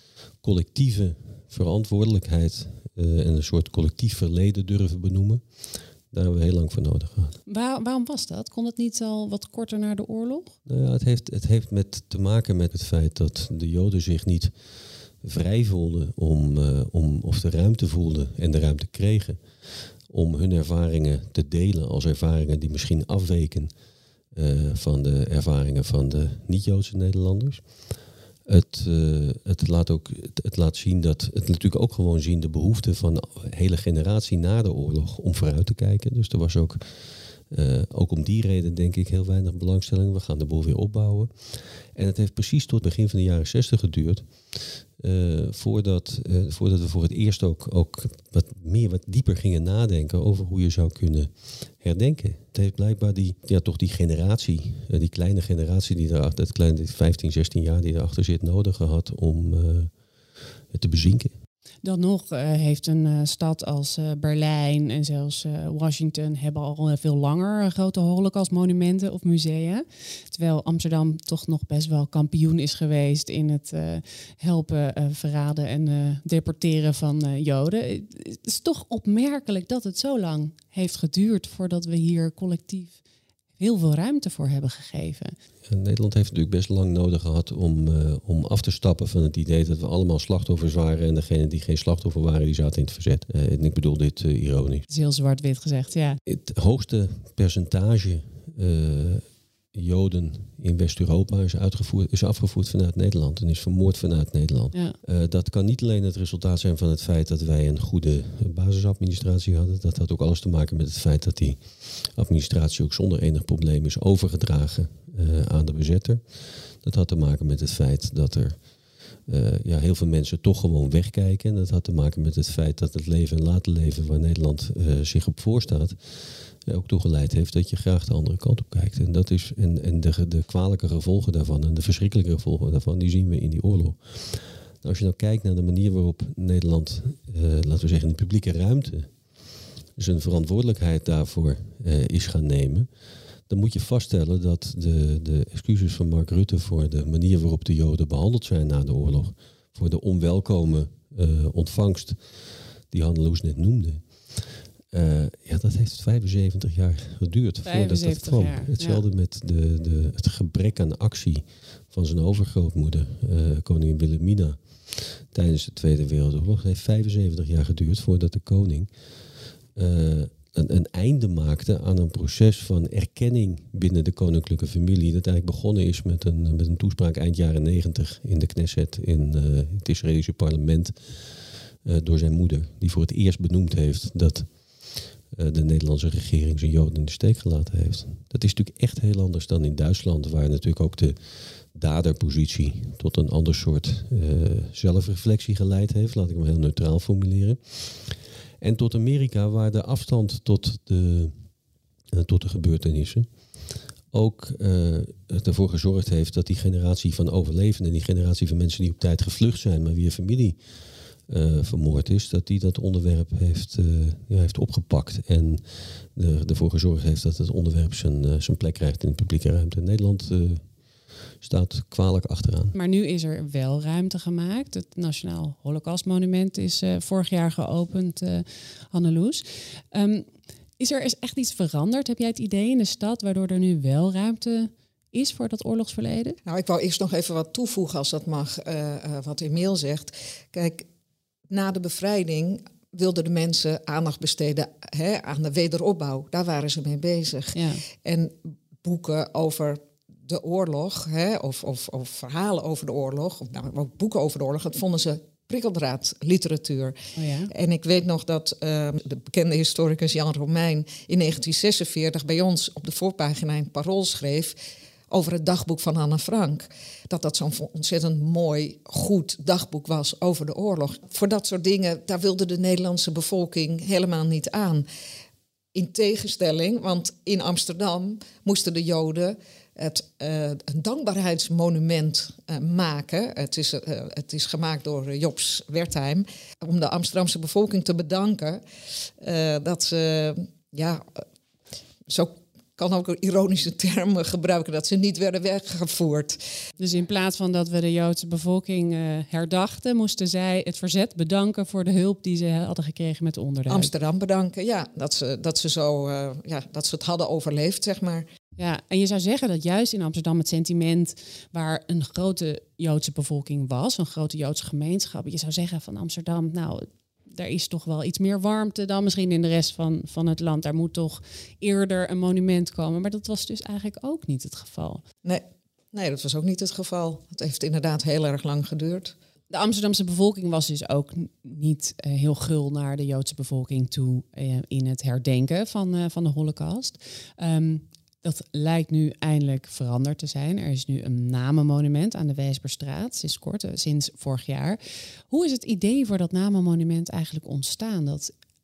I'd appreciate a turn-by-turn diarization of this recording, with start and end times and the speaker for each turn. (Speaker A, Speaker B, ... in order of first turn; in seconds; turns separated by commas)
Speaker A: 0.4-5.4, Speaker A: 6.1-7.4, Speaker B: 7.5-10.6, Speaker A: 10.7-14.5, Speaker A: 15.2-19.4, Speaker A: 20.1-23.7, Speaker A: 24.3-27.6, Speaker A: 28.5-36.8, Speaker A: 37.5-59.9, Speaker A: 60.7-61.3, Speaker B: 61.8-83.0, Speaker B: 83.6-85.3, Speaker A: 85.7-94.9, Speaker B: 94.9-96.2, Speaker A: 96.3-116.2, Speaker A: 116.8-118.6, Speaker A: 119.3-126.0, Speaker A: 126.7-139.1, Speaker A: 140.0-142.9, Speaker A: 143.5-152.2, Speaker A: 152.9-168.9, Speaker B: 157.6-159.0, Speaker A: 169.8-180.9, Speaker A: 181.8-184.5, Speaker A: 185.3-191.2, Speaker A: 191.7-201.3, Speaker A: 202.1-203.3, Speaker A: 204.1-210.6, Speaker A: 211.3-215.6, Speaker A: 216.2-220.7, Speaker A: 221.4-222.8, Speaker B: 222.7-230.3, Speaker B: 230.8-236.4, Speaker C: 236.5-240.9, Speaker C: 241.5-257.0, Speaker B: 247.5-247.8, Speaker B: 257.2-257.5, Speaker C: 257.5-264.6, Speaker C: 265.1-274.9, Speaker C: 275.7-288.6, Speaker C: 289.2-291.2, Speaker C: 292.1-296.4, Speaker B: 296.8-303.9, Speaker C: 303.7-308.3, Speaker B: 308.6-325.0, Speaker C: 325.2-329.1, Speaker B: 329.5-348.3